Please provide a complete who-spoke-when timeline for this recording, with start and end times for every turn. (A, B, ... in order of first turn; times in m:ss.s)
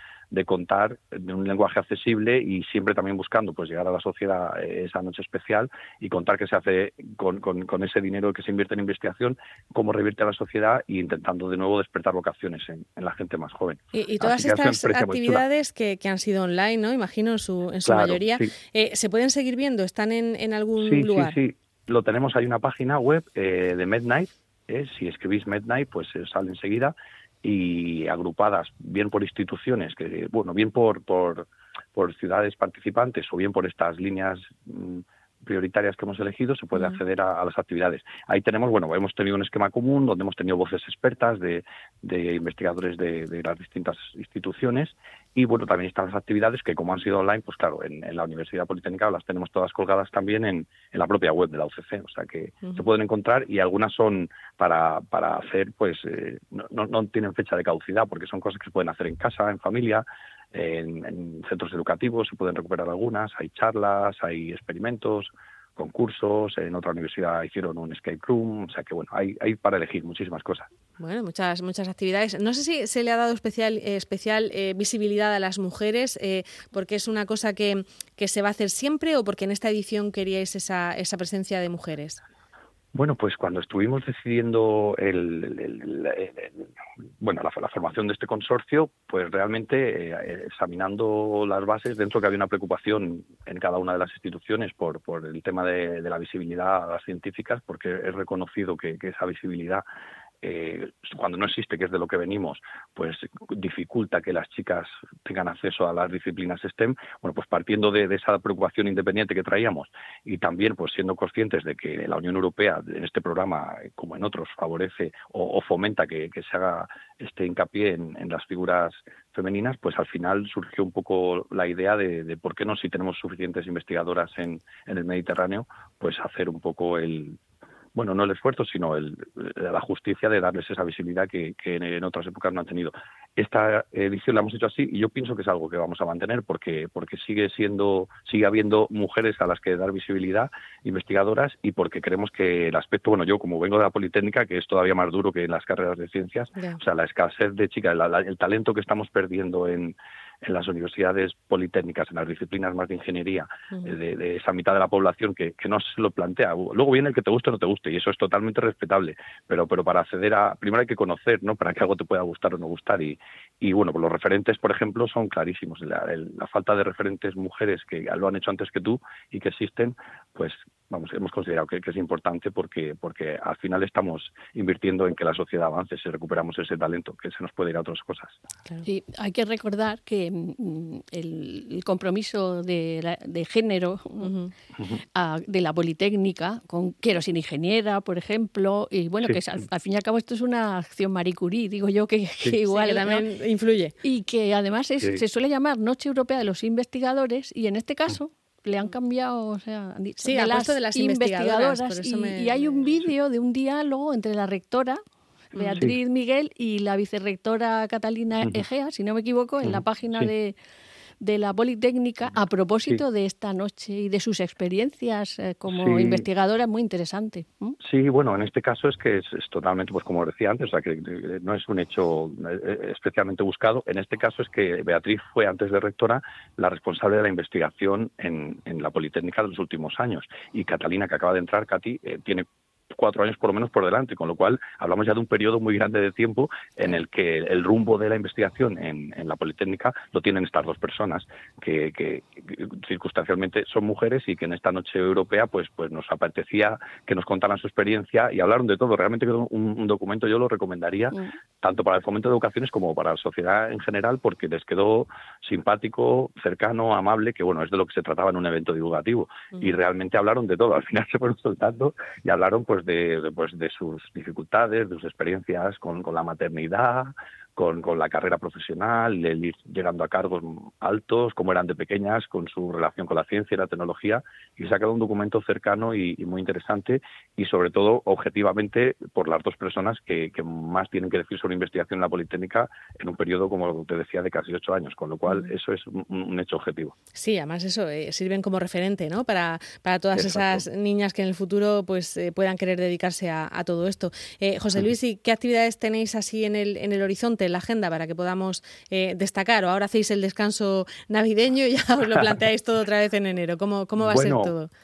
0:00.3-0:15.4 A
0:13.9-0:21.4 B
0:17.8-0:18.5 A
0:20.8-1:10.7 A
0:36.7-0:37.0 B
1:11.0-1:22.2 B
1:23.0-1:26.7 A
1:27.2-1:39.8 A
1:40.4-2:07.4 A
2:08.0-2:58.4 A
2:58.8-3:04.3 C
3:04.2-3:04.5 B
3:05.2-3:13.2 C
3:12.7-3:13.9 B
3:14.0-3:25.0 C
3:20.2-3:22.6 B
3:25.5-3:25.8 B
3:25.6-3:30.6 C
3:29.6-3:30.3 A
3:31.2-3:37.8 C
3:35.7-3:36.2 A
3:37.8-4:47.0 A
4:47.1-5:04.7 B
4:50.1-4:50.6 A
5:04.0-5:04.5 A